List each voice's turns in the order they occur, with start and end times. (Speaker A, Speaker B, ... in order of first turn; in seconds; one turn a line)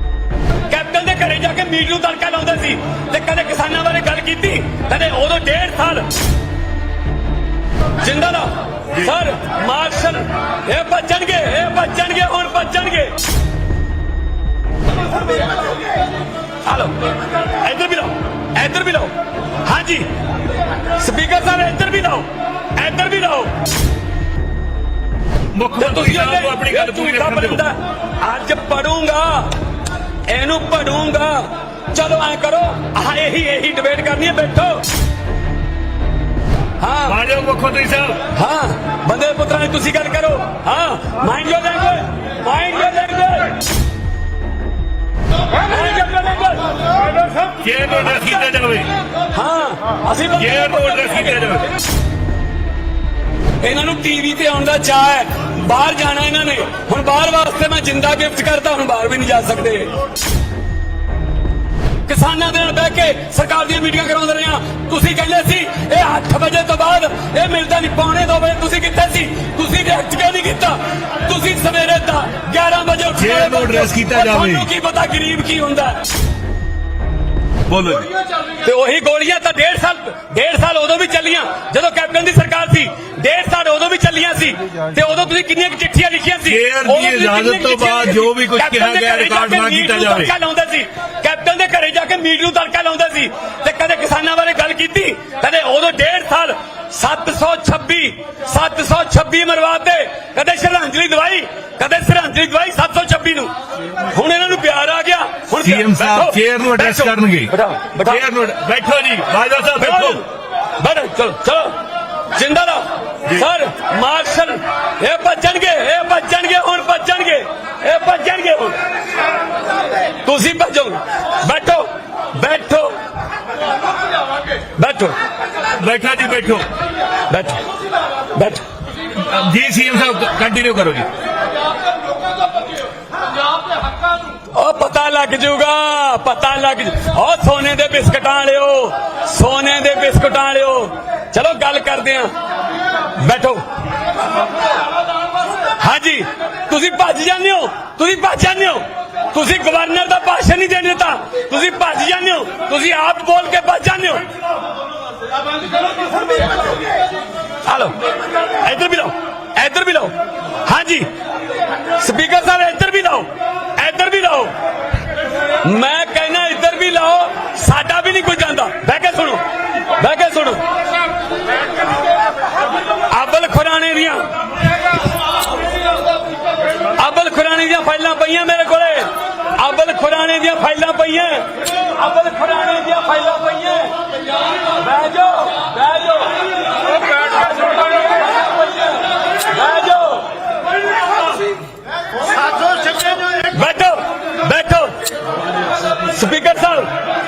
Speaker A: 0.7-6.1
Speaker A: 8.0-13.1
Speaker A: 16.6-16.9
Speaker A: 17.6-19.1
Speaker A: 19.6-20.1
Speaker A: 21.0-23.5
Speaker B: 25.5-27.6
Speaker A: 25.8-29.5
Speaker A: 30.3-34.8
Speaker A: 36.8-37.2
Speaker B: 37.1-38.2
Speaker A: 38.3-43.6
Speaker A: 45.6-46.7
Speaker B: 47.6-48.9
Speaker A: 49.3-51.2
Speaker B: 50.4-51.7
Speaker A: 53.6-59.9
Speaker A: 62.0-76.0
Speaker B: 73.2-74.7
Speaker B: 77.7-78.1
Speaker A: 78.6-103.5
Speaker B: 86.5-90.3
Speaker A: 104.1-108.2
Speaker B: 105.6-107.5
Speaker B: 108.0-110.2
Speaker A: 109.8-110.3
Speaker A: 110.8-111.8
Speaker A: 112.3-118.8
Speaker A: 120.2-123.0
Speaker A: 124.8-125.1
Speaker B: 125.8-126.7
Speaker A: 127.3-127.6
Speaker A: 128.3-128.6
Speaker B: 129.1-131.1
Speaker A: 134.5-142.3
Speaker A: 143.2-143.6
Speaker A: 145.8-154.2
Speaker A: 157.6-158.0
Speaker A: 158.6-160.1
Speaker A: 160.6-161.1
Speaker A: 162.0-164.5
Speaker A: 165.6-169.4
Speaker A: 170.0-170.6
Speaker A: 173.1-174.3
Speaker A: 176.9-184.0
Speaker A: 184.5-190.3
Speaker A: 193.5-194.9
Speaker A: 196.1-196.9